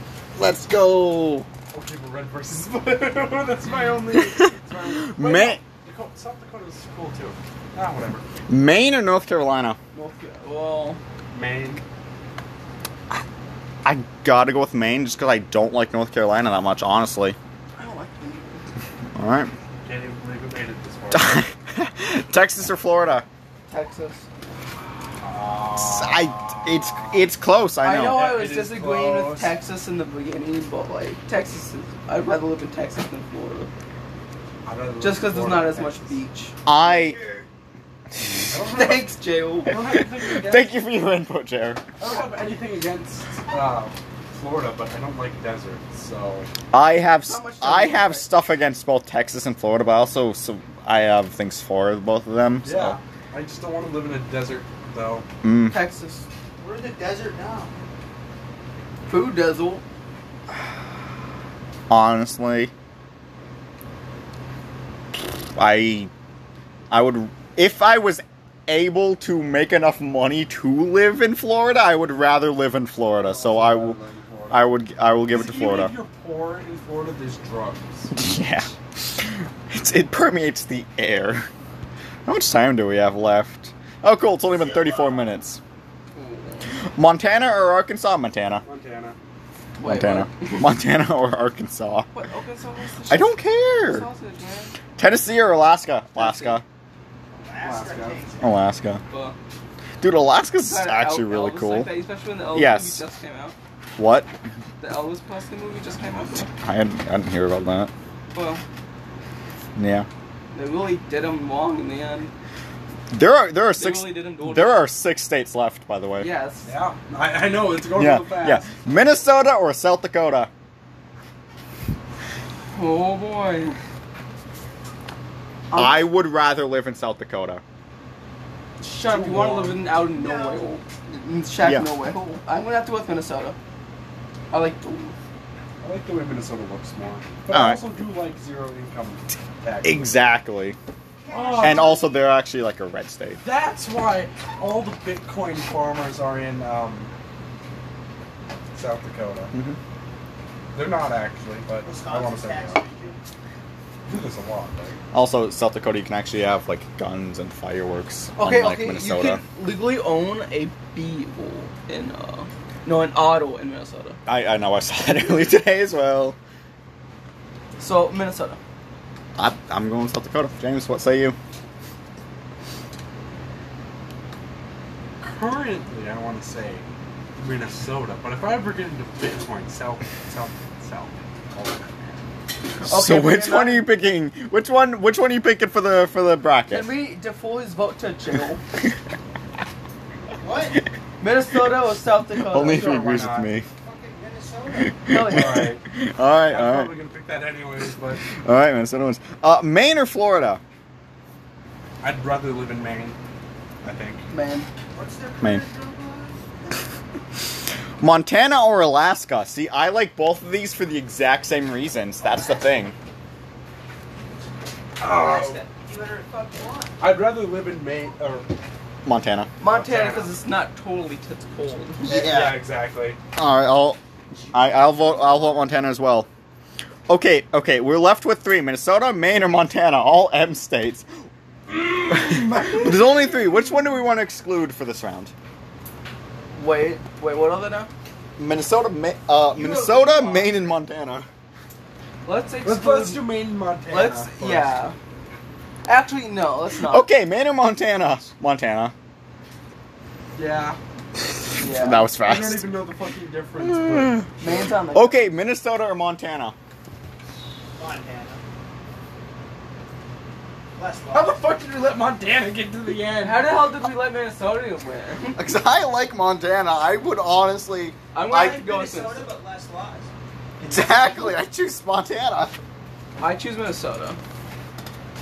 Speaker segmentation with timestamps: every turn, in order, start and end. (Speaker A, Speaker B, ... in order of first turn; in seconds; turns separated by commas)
Speaker A: 0.3-1.5, Speaker B: 1.7-8.2, Speaker A: 5.0-5.6, Speaker A: 8.5-9.8, Speaker C: 9.9-11.0, Speaker B: 11.3-11.8, Speaker A: 13.8-17.4, Speaker C: 17.8-18.6, Speaker A: 19.1-19.5, Speaker B: 19.9-21.4, Speaker A: 21.1-23.3, Speaker C: 23.7-24.3, Speaker B: 25.2-27.2, Speaker A: 25.8-28.3, Speaker C: 27.8-33.7, Speaker B: 28.1-29.5, Speaker B: 34.6-36.1, Speaker C: 35.0-36.6, Speaker A: 36.7-37.2, Speaker D: 36.8-37.5, Speaker B: 38.5-39.1, Speaker C: 38.7-39.8, Speaker B: 39.7-40.7, Speaker A: 39.8-41.8, Speaker B: 42.0-46.5, Speaker A: 46.7-53.0, Speaker C: 47.3-48.3, Speaker B: 52.6-55.3, Speaker A: 55.4-55.8, Speaker C: 55.7-56.2, Speaker D: 56.6-57.8, Speaker C: 59.1-59.8, Speaker A: 61.9-62.7, Speaker A: 65.6-66.1, Speaker A: 66.9-74.0, Speaker B: 73.2-74.7, Speaker A: 74.5-76.0, Speaker B: 75.3-78.1, Speaker A: 78.1-81.5, Speaker A: 82.3-85.6, Speaker D: 84.6-85.2, Speaker C: 86.2-86.7, Speaker A: 86.9-88.7, Speaker B: 88.6-89.2, Speaker C: 89.8-90.7, Speaker A: 89.8-92.1, Speaker C: 92.1-94.8, Speaker A: 93.1-94.1, Speaker A: 95.0-96.6, Speaker C: 96.2-96.6, Speaker D: 97.3-98.5, Speaker B: 97.6-98.2, Speaker A: 98.4-99.0, Speaker C: 99.1-99.3, Speaker A: 100.0-101.9, Speaker C: 100.6-103.5, Speaker A: 102.5-103.0, Speaker A: 104.0-104.3, Speaker C: 104.8-106.5, Speaker A: 106.6-107.9, Speaker C: 108.3-108.6, Speaker A: 109.8-110.1, Speaker C: 110.5-112.3, Speaker A: 113.1-116.3, Speaker C: 113.8-114.8, Speaker C: 116.2-116.7, Speaker B: 116.7-118.7, Speaker A: 117.9-120.5, Speaker C: 122.7-123.8, Speaker C: 125.7-126.1, Speaker A: 125.7-127.6, Speaker C: 128.8-133.6, Speaker B: 128.9-129.9, Speaker D: 130.1-130.7, Speaker A: 131.6-131.9, Speaker C: 134.5-135.2, Speaker B: 135.8-140.1, Speaker A: 137.5-137.8, Speaker A: 139.8-140.8, Speaker D: 141.2-142.2, Speaker B: 141.3-142.0, Speaker A: 141.6-143.4, Speaker B: 143.4-147.1, Speaker B: 148.7-149.5, Speaker B: 150.7-152.8, Speaker D: 151.8-153.2, Speaker B: 154.1-155.0, Speaker A: 155.1-159.4, Speaker C: 158.4-164.2, Speaker A: 164.3-166.4, Speaker C: 167.8-168.6, Speaker A: 169.3-171.4, Speaker B: 175.2-176.8, Speaker B: 177.4-181.9, Speaker A: 182.8-186.9, Speaker C: 182.8-183.9, Speaker C: 186.7-188.6, Speaker D: 190.4-190.8, Speaker C: 191.2-193.2, Speaker A: 192.3-193.7, Speaker B: 193.0-193.5, Speaker D: 193.2-195.0, Speaker A: 194.8-196.9, Speaker C: 195.1-195.7, Speaker B: 195.2-195.8, Speaker B: 196.5-198.2, Speaker A: 198.2-200.6, Speaker B: 202.0-203.2, Speaker B: 203.8-204.3, Speaker C: 204.3-204.7, Speaker D: 204.9-206.8, Speaker A: 208.0-212.9, Speaker D: 212.2-212.6, Speaker B: 215.0-215.6, Speaker D: 215.0-217.0, Speaker B: 217.0-218.5, Speaker A: 219.1-219.5, Speaker C: 219.6-222.3, Speaker B: 219.6-220.3, Speaker B: 222.0-223.2, Speaker A: 222.1-222.6, Speaker A: 223.4-224.0, Speaker A: 224.5-226.3, Speaker A: 227.1-231.1, Speaker B: 232.0-232.8, Speaker A: 232.1-235.3, Speaker C: 236.6-237.9, Speaker A: 238.4-241.3, Speaker C: 239.5-240.6, Speaker C: 242.2-244.9, Speaker B: 242.7-244.7, Speaker C: 245.8-247.1, Speaker A: 246.9-248.9, Speaker B: 250.3-250.8, Speaker A: 251.5-252.7, Speaker C: 251.6-252.1, Speaker B: 252.2-254.7, Speaker A: 253.6-254.2, Speaker C: 254.4-255.3, Speaker A: 254.9-256.6, Speaker D: 257.8-258.4, Speaker D: 260.7-261.4, Speaker B: 261.1-263.6, Speaker C: 263.2-265.5, Speaker A: 265.4-268.6, Speaker C: 268.1-269.3, Speaker D: 268.4-271.4, Speaker A: 270.7-272.6, Speaker C: 273.2-274.2